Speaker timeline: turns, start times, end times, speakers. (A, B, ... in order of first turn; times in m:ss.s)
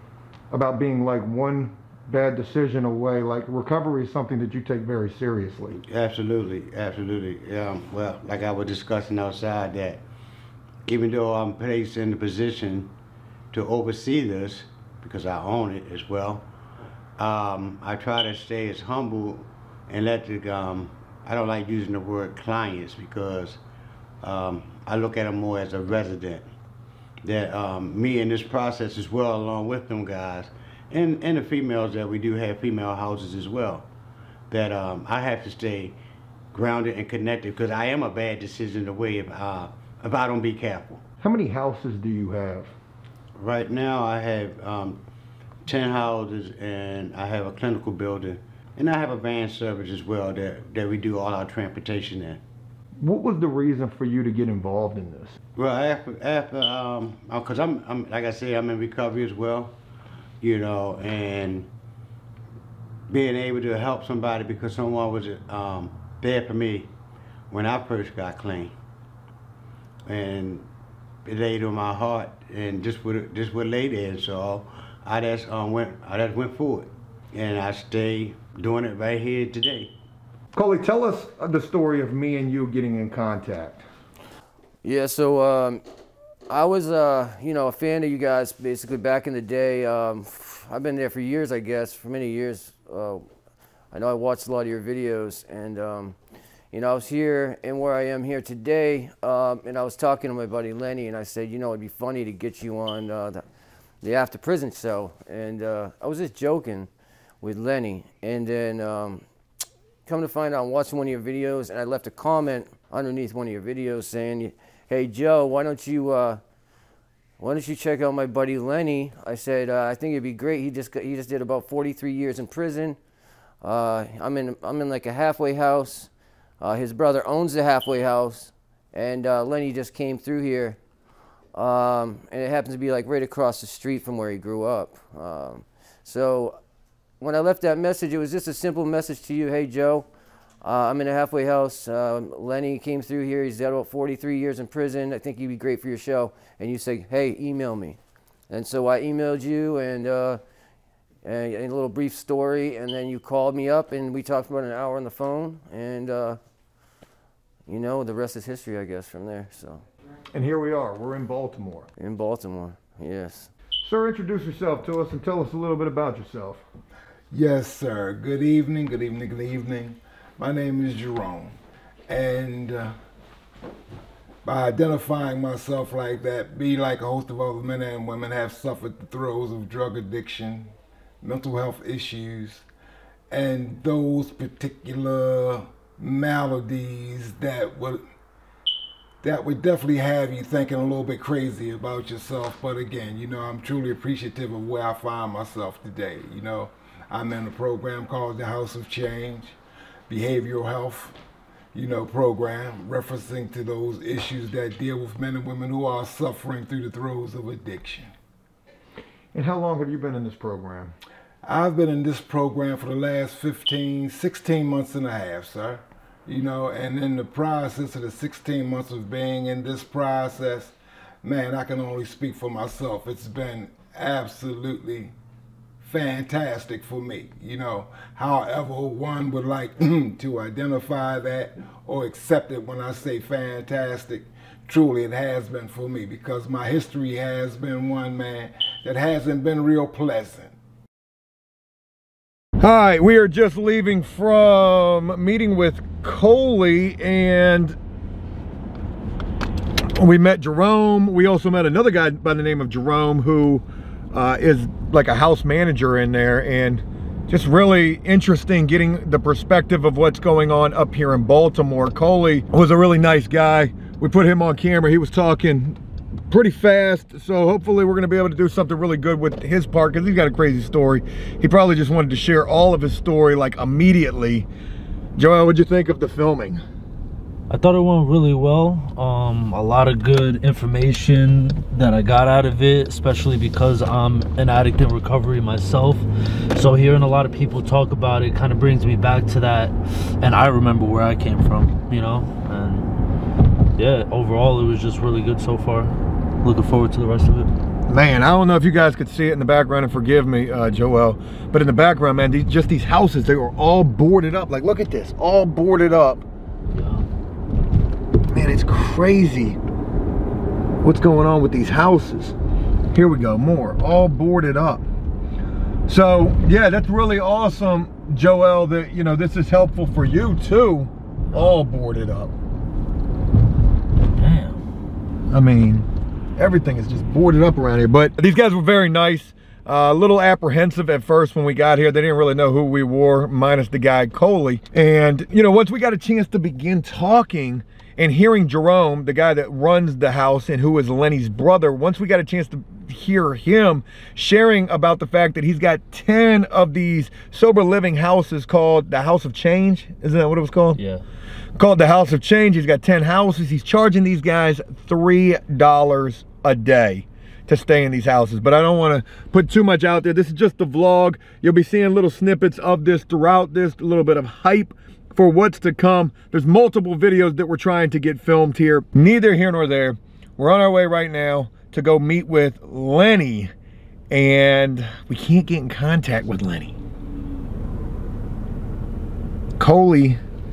0:00.5-0:05.8 A
0:05.7-0:10.0 B
0:10.8-0:12.9 B
0:13.5-0:16.5 B
0:17.2-0:23.6 B
0:24.2-0:26.5 B
0:27.2-0:33.9 B
0:34.5-0:36.0 B
0:36.5-0:41.0 B
0:41.2-0:42.7 A
0:43.4-0:45.0 B
0:45.6-0:52.4 B
0:53.0-0:55.4 A
0:55.6-0:59.8 B
1:00.4-1:01.7 B
1:03.1-1:06.9 B
1:07.5-1:08.7 B
1:10.0-1:10.7 B
1:11.2-1:19.9 B
1:20.5-1:23.8 A
1:24.8-1:25.8 C
1:26.5-1:33.2 C
1:33.9-1:36.2 C
1:36.7-1:43.4 C
1:44.0-1:46.9 C
1:47.4-1:49.2 C
1:50.0-1:56.4 C
1:57.4-2:03.0 C
2:03.6-2:10.8 C
2:11.5-2:16.6 C
2:17.2-2:20.1 C
2:20.6-2:30.4 C
2:31.2-2:36.4 C
2:37.7-2:39.8 C
2:40.3-2:41.9 A
2:42.0-2:43.5 C
2:43.8-2:46.6 A
2:47.3-2:51.6 D
2:52.1-2:52.9 D
2:54.4-3:00.7 D
3:01.2-3:02.6 D
3:03.3-3:08.0 D
3:09.2-3:19.6 D
3:20.1-3:21.1 D
3:21.7-3:28.1 D
3:29.3-3:30.9 A
3:31.4-3:45.1 D
3:45.8-4:00.5 D
4:02.6-4:07.8 A
4:10.0-4:25.8 A
4:26.3-4:34.5 A
4:35.2-4:36.6 A
4:37.5-4:52.9 E
4:53.8-4:57.5 E
4:57.9-5:06.2 A
5:06.7-5:07.0 E
5:08.3-5:09.6 A
5:10.8-5:12.3 A
5:12.9-5:14.8 A
5:15.9-5:22.3 A
5:21.3-5:21.6 E
5:24.0-5:24.6 E
5:25.3-5:50.8 A
5:50.8-5:51.0 E
5:51.6-6:13.5 A
6:14.1-6:16.8 A
6:19.6-6:20.2 A